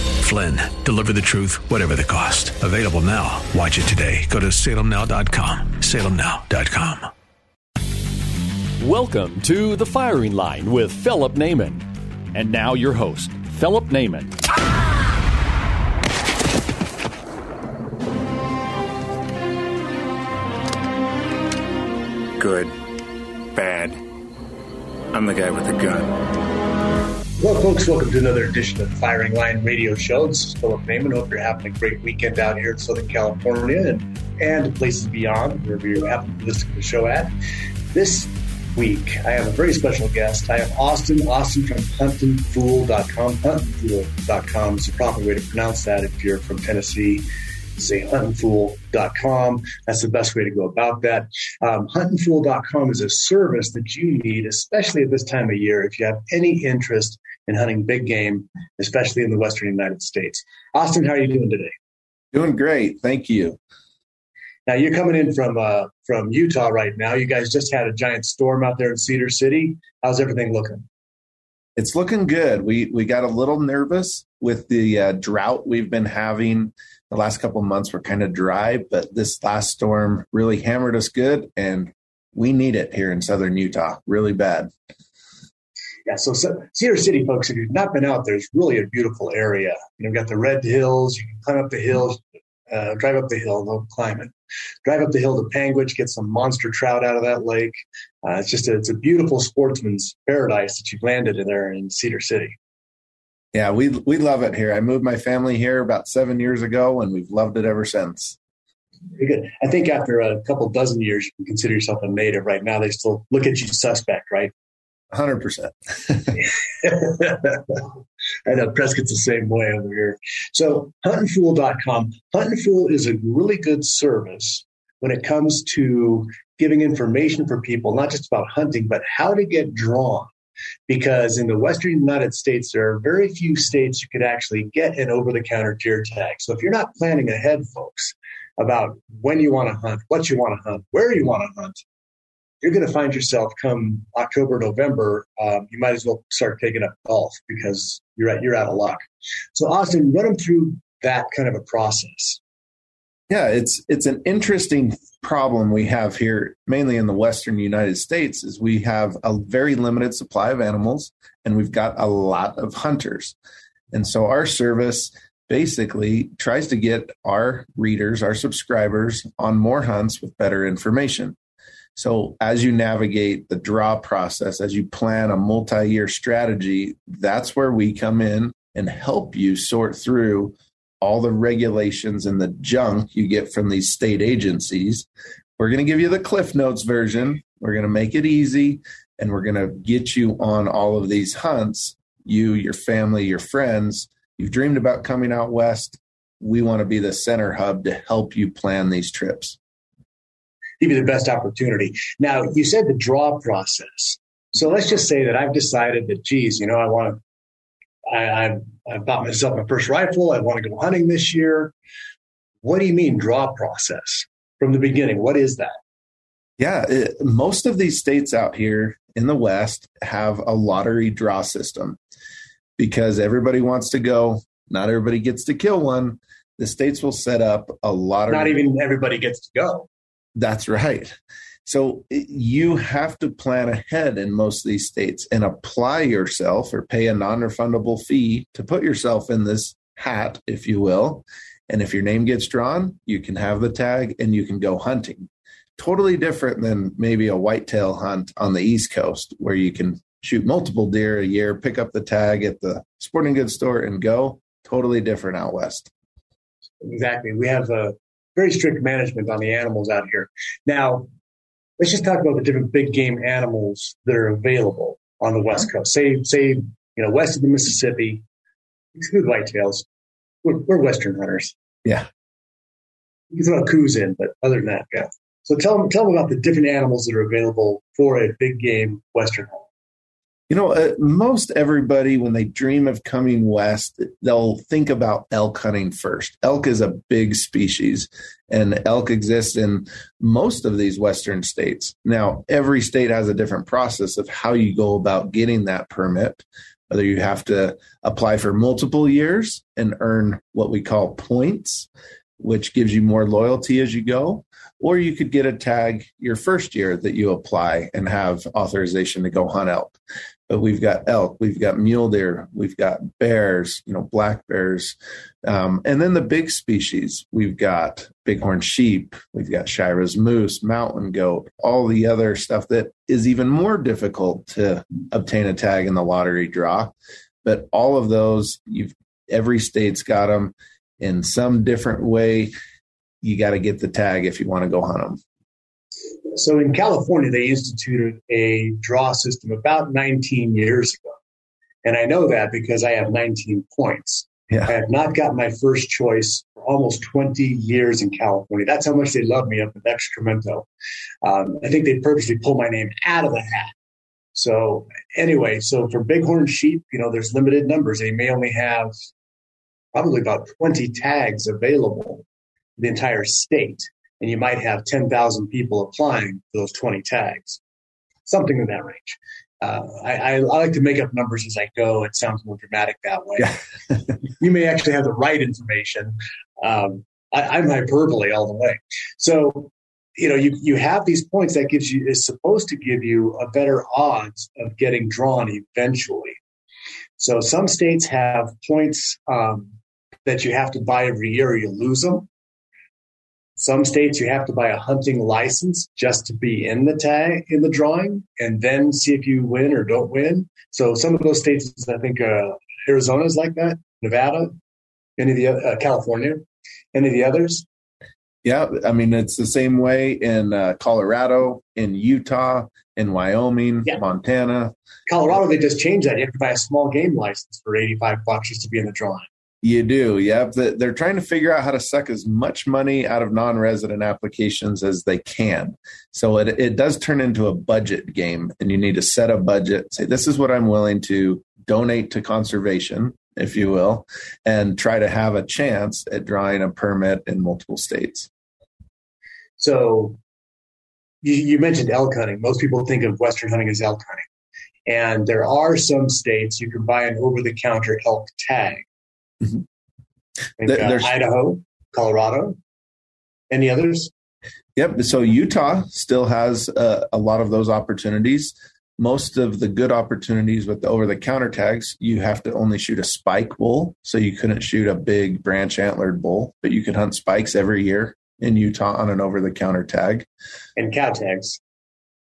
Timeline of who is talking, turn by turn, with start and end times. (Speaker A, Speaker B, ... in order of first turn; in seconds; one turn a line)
Speaker A: 0.2-7.1
Speaker B: 8.8-14.3
Speaker C: 22.4-22.8
Speaker C: 23.6-24.0
Speaker C: 25.1-26.1
Speaker D: 27.4-37.3
Speaker D: 37.9-47.3
Speaker D: 47.8-61.7
Speaker E: 62.3-63.6
Speaker D: 64.7-70.9
Speaker E: 71.8-84.7
Speaker D: 86.1-94.3
Speaker D: 94.8-102.6
Speaker E: 103.5-108.4
Speaker D: 109.2-114.5
Speaker E: 115.1-116.4
Speaker D: 116.8-117.8
Speaker D: 118.5-130.3
Speaker D: 130.9-141.8
Speaker D: 142.6-149.0
Speaker D: 149.6-152.4
Speaker E: 153.3-163.4
Speaker E: 163.9-171.4
Speaker E: 172.0-185.1
Speaker E: 185.6-199.6
Speaker D: 200.8-207.2
Speaker D: 208.1-211.7
Speaker D: 212.6-215.8
Speaker E: 216.6-222.0
Speaker E: 222.8-228.6
Speaker D: 228.3-229.9
Speaker E: 230.4-255.9
Speaker D: 256.8-261.1
Speaker D: 261.8-268.2
Speaker D: 269.0-269.9
Speaker D: 270.4-271.6
Speaker D: 273.3-279.7
Speaker E: 280.5-301.9
Speaker E: 302.4-310.0
Speaker E: 310.5-332.5
Speaker E: 333.2-335.2
Speaker D: 336.3-341.2
Speaker D: 341.8-350.7
Speaker D: 351.2-353.8
Speaker D: 354.4-358.9
Speaker D: 359.9-362.2
Speaker D: 362.8-367.6
Speaker D: 368.3-373.6
Speaker D: 374.4-386.4
Speaker D: 387.2-389.7
Speaker D: 390.3-392.3
Speaker D: 393.6-404.6
Speaker D: 405.2-406.4
Speaker D: 406.9-407.7
Speaker E: 408.4-414.7
Speaker D: 415.1-419.3
Speaker E: 419.6-438.3
Speaker D: 439.6-440.2
Speaker D: 441.2-444.3
Speaker D: 444.9-448.9
Speaker D: 450.6-452.6
Speaker E: 450.6-451.1
Speaker D: 453.5-454.1
Speaker E: 454.8-470.3
Speaker D: 470.8-471.6